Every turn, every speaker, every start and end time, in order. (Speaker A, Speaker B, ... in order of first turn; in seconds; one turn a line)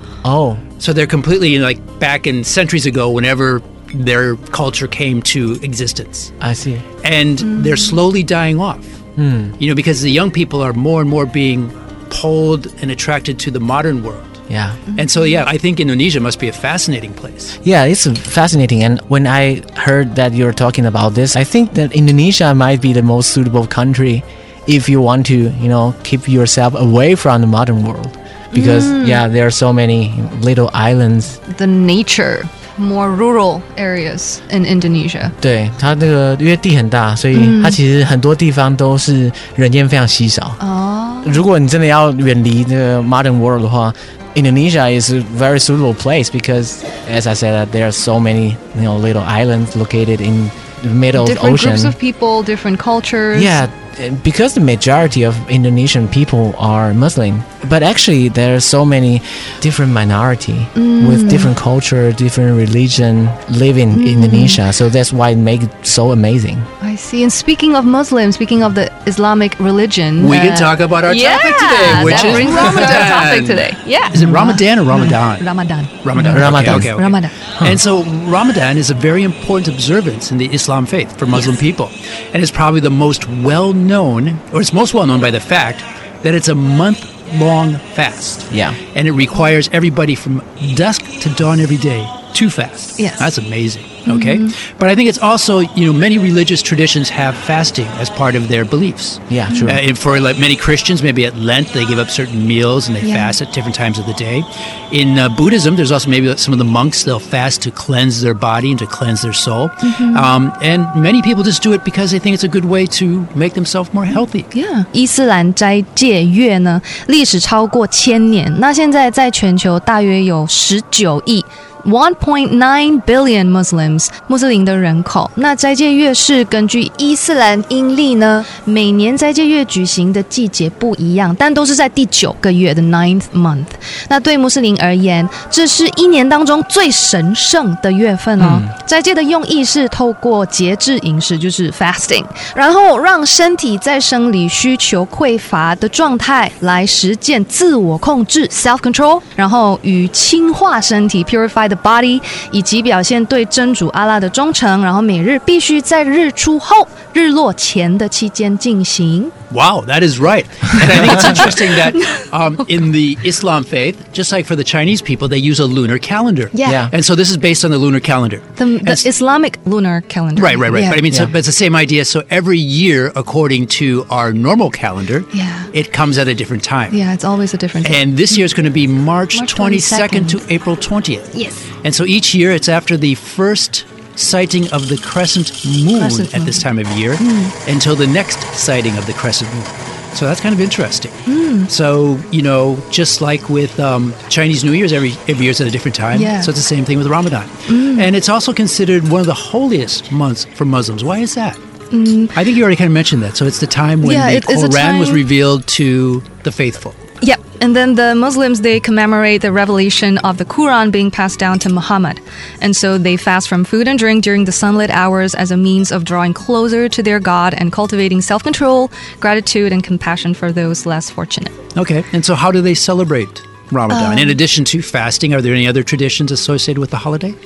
Speaker A: 0.2-0.6
Speaker B: 0.8-6.3
Speaker A: 6.4-6.8
Speaker B: 7.0-9.0
Speaker C: 7.5-8.0
Speaker A: 9.2-9.6
Speaker B: 9.6-14.4
Speaker A: 14.5-14.8
Speaker C: 14.9-15.4
Speaker B: 14.9-17.6
Speaker A: 17.6-31.4
Speaker C: 28.5-29.2
Speaker C: 31.5-35.3
Speaker A: 35.4-40.6
Speaker C: 37.3-37.8
Speaker C: 40.6-41.4
Speaker A: 41.2-52.0
Speaker C: 51.1-53.6
Speaker A: 53.3-66.7
Speaker C: 60.8-61.5
Speaker C: 63.9-64.6
Speaker C: 66.8-77.3
Speaker B: 70.2-75.5
Speaker B: 76.0-114.5
Speaker A: 76.2-77.0
Speaker A: 88.5-88.8
Speaker C: 93.0-93.3
Speaker C: 94.0-94.5
Speaker A: 99.3-99.8
Speaker C: 99.5-99.8
Speaker C: 103.0-103.3
Speaker C: 109.8-110.3
Speaker C: 114.5-159.3
Speaker A: 138.4-138.7
Speaker B: 159.5-169.1
Speaker C: 161.1-162.2
Speaker C: 166.5-166.9
Speaker A: 166.6-166.9
Speaker C: 168.6-171.1
Speaker B: 170.3-177.0
Speaker C: 175.3-175.7
Speaker C: 176.9-178.4
Speaker B: 177.8-201.6
Speaker C: 179.3-180.4
Speaker C: 181.3-181.7
Speaker C: 186.0-186.7
Speaker C: 187.2-187.5
Speaker C: 191.3-191.7
Speaker C: 196.1-196.5
Speaker C: 197.7-198.1
Speaker C: 201.9-202.3
Speaker B: 202.3-207.0
Speaker C: 204.0-205.2
Speaker C: 207.2-221.6
Speaker B: 221.7-227.3
Speaker C: 223.9-224.3